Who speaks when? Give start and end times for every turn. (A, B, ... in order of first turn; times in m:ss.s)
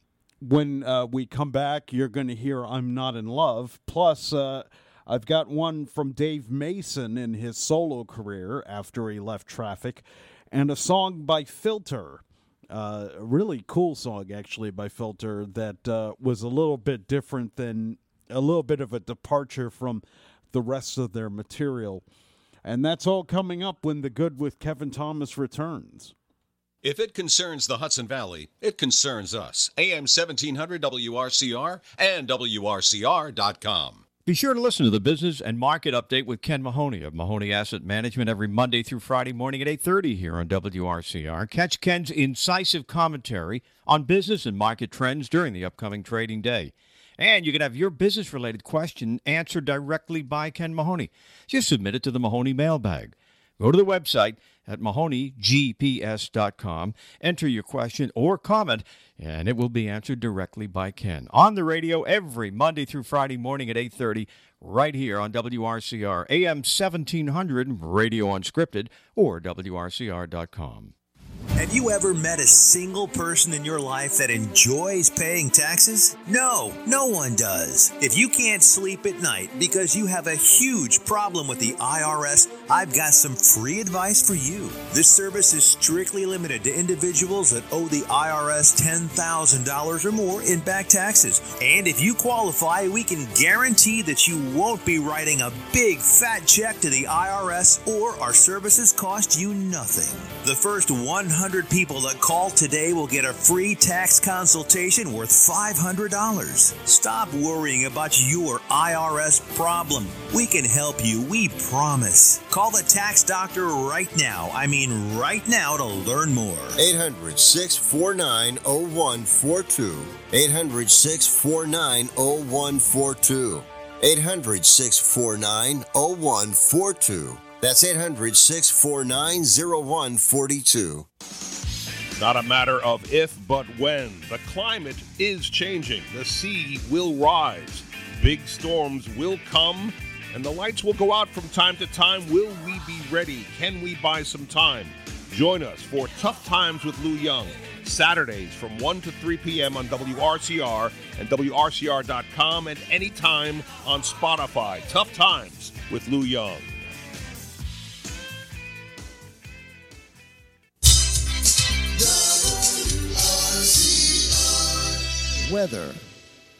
0:00.4-0:22.0 A
0:22.6-0:26.1 A
0:26.8-0:34.1 B
0:34.2-1:10.9 C
1:11.6-1:56.8 D
1:56.8-2:11.0 E
2:12.2-2:36.8 F
2:45.4-2:46.0 A